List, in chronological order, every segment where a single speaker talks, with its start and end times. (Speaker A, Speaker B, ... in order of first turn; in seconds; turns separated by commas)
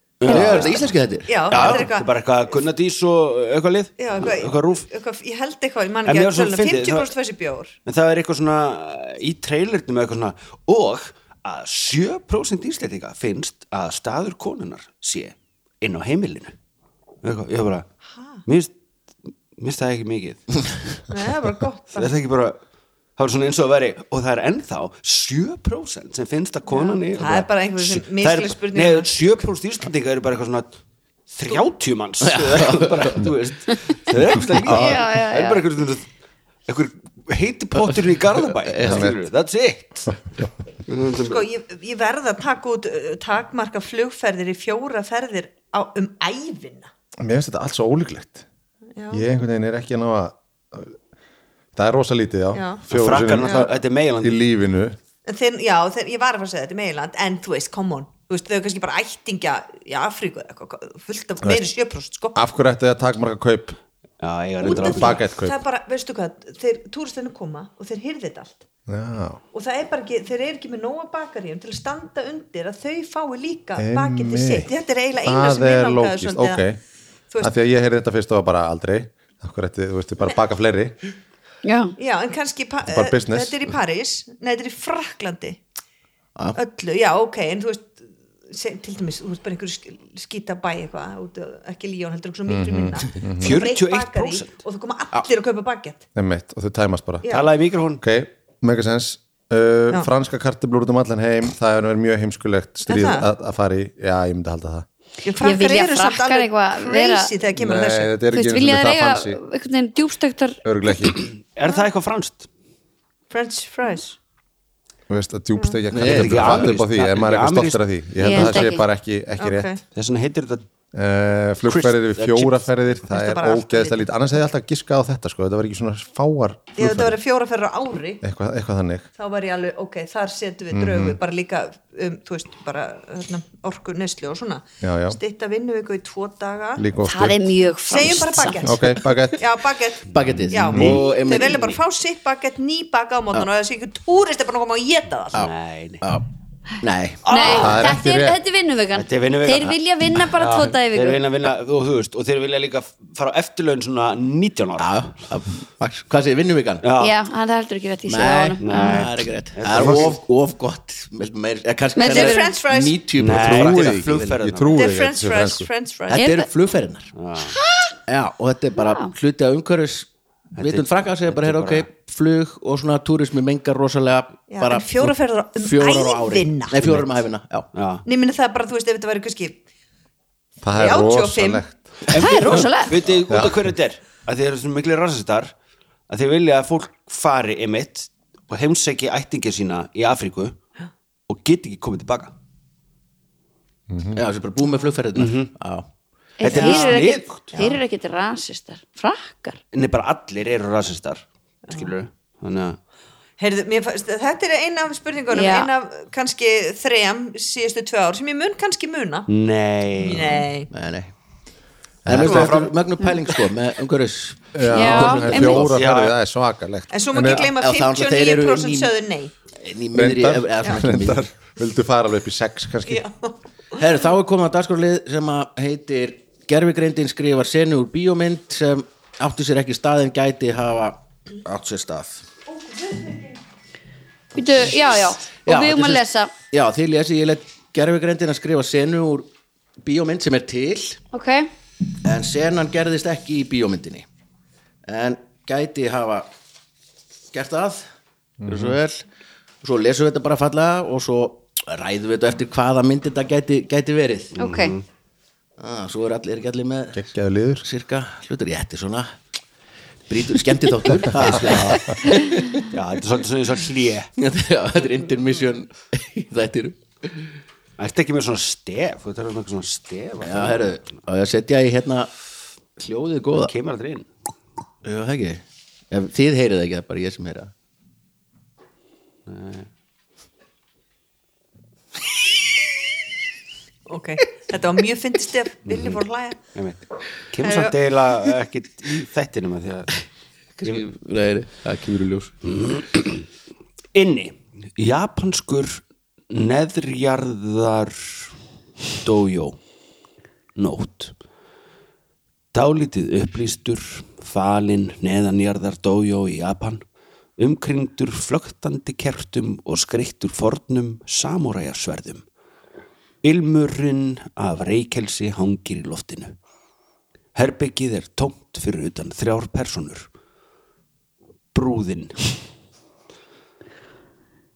Speaker A: 0.2-0.9, Speaker B: 0.2-1.9, Speaker C: 0.3-2.1, Speaker A: 1.5-4.8, Speaker C: 4.0-7.7, Speaker A: 6.0-7.1, Speaker A: 7.8-16.5, Speaker A: 17.2-17.9, Speaker A: 18.4-18.7, Speaker A: 19.6-20.4, Speaker C: 21.1-22.1, Speaker A: 21.9-22.6, Speaker A: 23.2-30.7, Speaker C: 26.7-29.1, Speaker A: 31.3-36.0, Speaker B: 32.2-33.2, Speaker B: 34.6-35.0, Speaker D: 34.7-35.6, Speaker A: 36.7-40.1, Speaker B: 38.6-39.1, Speaker E: 38.8-39.1, Speaker A: 40.9-41.4, Speaker C: 41.2-46.9, Speaker E: 47.2-48.4, Speaker C: 49.0-49.2, Speaker E: 49.1-51.0, Speaker E: 51.7-55.0, Speaker C: 52.5-52.8, Speaker A: 52.9-54.4, Speaker C: 55.2-62.4, Speaker E: 62.3-63.8, Speaker A: 64.2-65.2, Speaker C: 64.6-68.6, Speaker E: 64.6-65.5, Speaker E: 68.9-69.4, Speaker C: 69.5-76.6, Speaker E: 73.8-74.7, Speaker E: 75.2-76.8, Speaker E: 77.4-80.9, Speaker D: 81.6-81.9, Speaker C: 82.0-85.6, Speaker E: 82.9-83.6, Speaker C: 86.5-96.0, Speaker E: 92.5-93.6, Speaker A: 93.4-94.5, Speaker E: 96.1-97.2, Speaker C: 97.2-97.5, Speaker A: 97.3-98.0, Speaker E: 98.0-104.8, Speaker C: 102.9-103.3, Speaker C: 105.2-108.1, Speaker D: 105.4-107.3, Speaker E: 107.5-109.4, Speaker D: 108.3-110.6, Speaker E: 110.6-111.2, Speaker A: 111.2-112.5, Speaker C: 113.3-114.2, Speaker E: 115.1-119.7, Speaker B: 115.9-116.8, Speaker A: 116.0-117.8, Speaker D: 118.2-118.8, Speaker C: 119.4-119.8, Speaker A: 119.9-120.6, Speaker E: 120.9-127.2, Speaker A: 121.7-122.7, Speaker C: 123.1-124.0, Speaker C: 126.8-128.2, Speaker E: 128.2-129.1, Speaker C: 129.2-136.9, Speaker E: 130.7-131.2, Speaker E: 134.8-135.2, Speaker E: 136.8-137.4, Speaker D: 137.0-138.6, Speaker C: 137.9-145.4, Speaker E: 138.6-139.4, Speaker B: 140.1-141.8, Speaker E: 140.7-141.0, Speaker A: 141.3-141.7, Speaker A: 145.3-146.0, Speaker B: 146.8-147.3, Speaker A: 147.2-147.8, Speaker D: 147.3-151.2, Speaker E: 147.5-148.4, Speaker A: 148.9-149.8, Speaker A: 150.3-155.0, Speaker B: 154.8-156.9, Speaker A: 156.8-157.1, Speaker D: 157.0-159.1, Speaker B: 158.1-164.2, Speaker A: 158.6-160.2, Speaker E: 159.7-160.1, Speaker D: 161.9-162.6, Speaker C: 162.1-163.0, Speaker A: 163.2-164.7, Speaker E: 163.3-165.7, Speaker C: 164.7-166.3, Speaker D: 166.1-166.5, Speaker B: 166.1-167.1, Speaker A: 167.1-167.5, Speaker B: 168.1-177.7, Speaker D: 168.8-169.1, Speaker A: 170.6-171.9, Speaker C: 174.5-176.8, Speaker A: 177.7-178.0, Speaker C: 178.0-179.6, Speaker E: 180.6-181.9, Speaker C: 180.8-181.6, Speaker A: 182.1-185.5, Speaker D: 182.2-183.0, Speaker E: 183.3-183.6, Speaker A: 186.1-190.6, Speaker A: 191.3-192.3, Speaker E: 193.9-194.2, Speaker B: 194.1-195.9, Speaker A: 195.1-195.5, Speaker D: 196.4-199.6, Speaker A: 196.4-197.6, Speaker A: 199.7-202.8, Speaker C: 203.4-209.3, Speaker D: 205.3-205.7, Speaker A: 209.3-210.5, Speaker C: 210.0-210.7, Speaker B: 210.7-211.1, Speaker E: 212.0-212.6, Speaker B: 212.1-215.8, Speaker A: 212.1-212.7, Speaker E: 214.5-217.5, Speaker D: 214.7-215.8, Speaker A: 215.6-216.2, Speaker C: 216.9-219.3, Speaker B: 217.5-218.9, Speaker B: 219.6-221.3, Speaker E: 219.9-223.0, Speaker C: 222.9-223.8, Speaker B: 223.8-232.2, Speaker C: 232.5-233.4, Speaker D: 234.3-236.3, Speaker B: 235.4-239.3, Speaker B: 239.8-241.0, Speaker D: 241.1-241.5, Speaker B: 242.0-244.0, Speaker B: 244.8-246.3, Speaker B: 247.3-247.8, Speaker E: 248.4-248.7, Speaker B: 248.5-249.0, Speaker B: 249.6-254.3, Speaker D: 254.3-254.8, Speaker A: 254.4-254.8, Speaker B: 255.6-257.0, Speaker E: 256.9-257.6, Speaker B: 257.6-259.1, Speaker B: 260.1-262.6, Speaker A: 261.2-262.0, Speaker A: 262.7-264.1, Speaker B: 264.2-267.3, Speaker A: 267.8-270.8, Speaker B: 270.2-272.1, Speaker B: 272.8-273.5, Speaker A: 273.4-274.1, Speaker B: 274.8-277.5, Speaker A: 279.3-279.7, Speaker C: 283.9-286.4, Speaker A: 286.5-290.0, Speaker C: 287.4-287.8, Speaker B: 290.6-292.4, Speaker A: 292.4-293.2, Speaker A: 293.9-298.3, Speaker A: 299.0-299.6, Speaker A: 300.6-301.1, Speaker A: 302.5-306.8, Speaker A: 307.4-312.2, Speaker A: 313.2-316.3, Speaker A: 317.3-320.1, Speaker A: 321.5-322.2